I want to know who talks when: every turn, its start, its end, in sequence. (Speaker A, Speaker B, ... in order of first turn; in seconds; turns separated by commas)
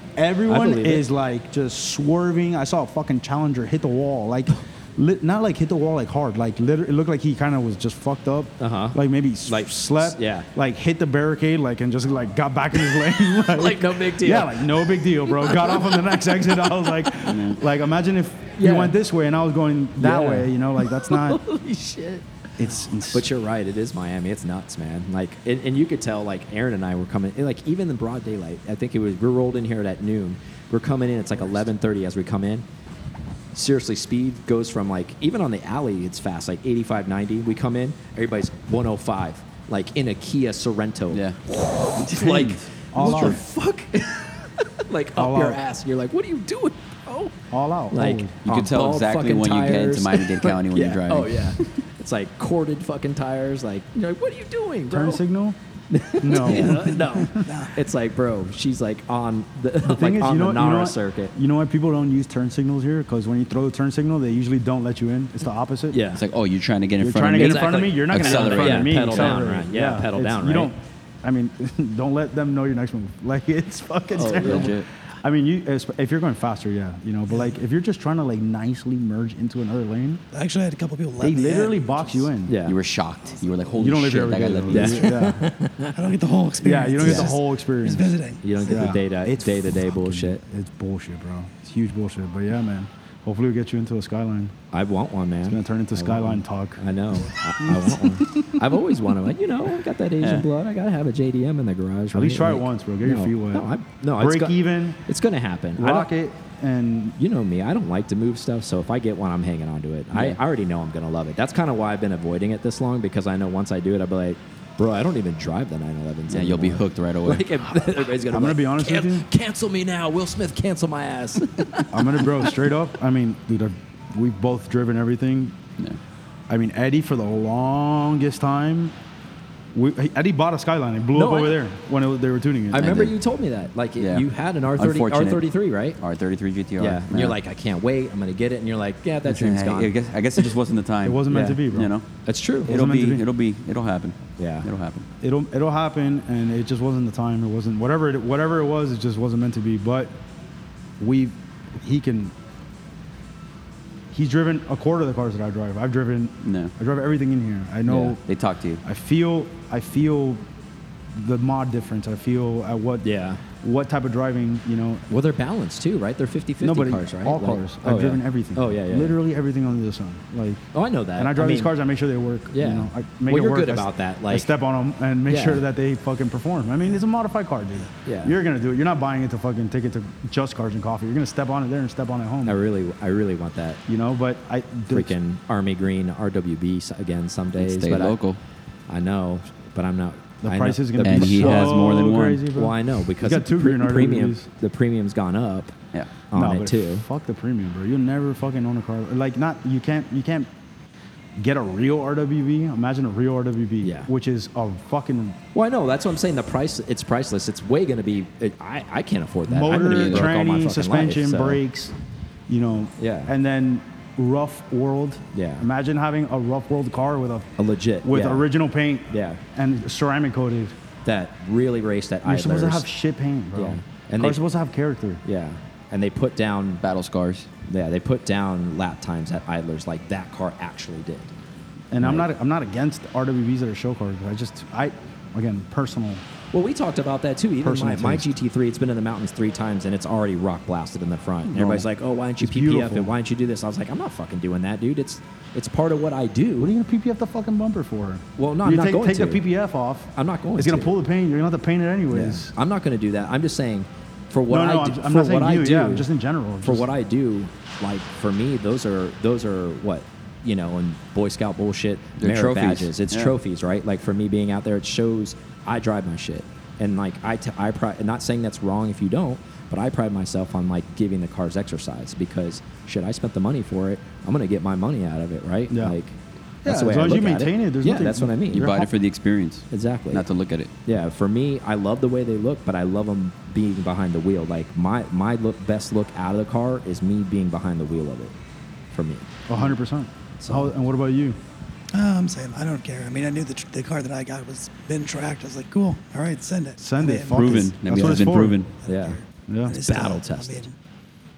Speaker A: 0.2-21.4, Speaker B: 0.5-1.1, Speaker B: 8.6-10.5, Speaker B: 12.8-17.3, Speaker B: 18.6-18.9, Speaker B: 20.0-22.2, Speaker A: 22.6-23.3, Speaker B: 23.1-32.6, Speaker B: 33.5-55.2, Speaker C: 41.1-41.4, Speaker C: 42.0-43.4, Speaker A: 42.9-43.4, Speaker A: 45.1-45.6, Speaker A: 47.5-48.4, Speaker C: 48.4-51.7, Speaker A: 54.9-55.6, Speaker B: 55.9-61.3, Speaker A: 56.2-57.5, Speaker C: 56.3-56.9, Speaker D: 57.4-57.7, Speaker A: 59.8-66.0, Speaker B: 65.9-66.2, Speaker C: 66.1-69.4, Speaker A: 67.0-80.2, Speaker B: 67.4-70.7, Speaker B: 74.1-74.7, Speaker C: 74.3-74.9, Speaker D: 80.3-82.3, Speaker A: 81.2-82.5, Speaker B: 82.5-82.8, Speaker C: 82.7-85.1, Speaker D: 83.3-83.8, Speaker A: 83.8-85.4, Speaker B: 84.7-85.9, Speaker D: 85.9-88.9, Speaker A: 86.6-88.1, Speaker B: 87.0-87.3, Speaker B: 88.4-90.4, Speaker A: 88.7-94.5, Speaker B: 94.7-106.1, Speaker A: 95.5-96.8, Speaker A: 97.6-98.7, Speaker C: 100.2-100.5, Speaker A: 102.1-105.0, Speaker A: 105.8-107.2, Speaker B: 107.2-121.8, Speaker C: 110.1-110.4, Speaker C: 116.3-117.5, Speaker A: 118.3-119.3, Speaker A: 121.9-125.5, Speaker A: 126.5-128.9, Speaker A: 129.7-133.1, Speaker B: 131.1-131.6, Speaker B: 132.7-136.0, Speaker C: 132.8-133.1, Speaker C: 134.0-137.4, Speaker B: 136.8-139.9, Speaker C: 139.2-142.0, Speaker A: 141.0-141.9, Speaker B: 141.3-141.6, Speaker B: 142.2-142.8, Speaker C: 142.7-145.1, Speaker A: 142.7-143.2, Speaker B: 144.4-144.7, Speaker A: 145.2-150.2, Speaker A: 151.0-152.3, Speaker A: 154.1-158.2, Speaker C: 156.4-156.7, Speaker C: 157.8-158.8, Speaker A: 158.8-160.4, Speaker A: 161.1-163.1, Speaker B: 163.0-163.4, Speaker A: 163.6-165.1, Speaker B: 165.1-169.2, Speaker A: 166.6-170.7, Speaker B: 170.7-171.7, Speaker A: 171.2-182.6, Speaker B: 172.5-174.5, Speaker B: 175.3-175.6, Speaker B: 178.1-178.3, Speaker B: 182.4-183.8, Speaker A: 183.9-185.1, Speaker B: 184.9-188.2, Speaker C: 187.6-188.4, Speaker B: 188.9-191.8, Speaker A: 190.4-194.5, Speaker C: 191.0-192.4, Speaker B: 192.5-195.8, Speaker B: 196.3-197.1, Speaker A: 196.3-200.5, Speaker A: 201.3-205.4, Speaker B: 203.8-204.1, Speaker B: 205.5-211.6, Speaker A: 209.5-211.9, Speaker C: 209.9-210.3, Speaker A: 212.5-217.5, Speaker B: 213.0-213.3, Speaker B: 215.3-215.7, Speaker B: 217.6-218.5, Speaker A: 218.0-220.8, Speaker B: 219.1-219.4, Speaker B: 221.0-222.8, Speaker A: 222.2-225.2, Speaker B: 223.5-224.4, Speaker B: 225.2-226.8, Speaker C: 226.8-227.5, Speaker B: 227.7-231.3, Speaker A: 231.9-236.2, Speaker B: 232.0-232.3, Speaker B: 236.5-246.7, Speaker A: 237.6-238.3, Speaker C: 241.5-241.8, Speaker A: 242.4-243.1, Speaker A: 246.6-252.5, Speaker B: 248.4-249.4, Speaker B: 250.1-250.9, Speaker B: 252.1-256.1, Speaker A: 254.5-256.9, Speaker B: 256.6-278.8, Speaker C: 262.2-263.4, Speaker A: 275.7-275.9, Speaker A: 276.6-278.9, Speaker C: 278.5-280.7, Speaker B: 279.7-280.2, Speaker B: 280.9-288.3, Speaker B: 288.9-289.7, Speaker A: 289.5-291.4, Speaker B: 290.4-290.7, Speaker D: 291.9-298.3, Speaker A: 296.8-298.6, Speaker C: 297.2-298.7, Speaker D: 298.8-300.7, Speaker B: 298.9-299.2, Speaker A: 299.5-299.8, Speaker B: 299.8-300.7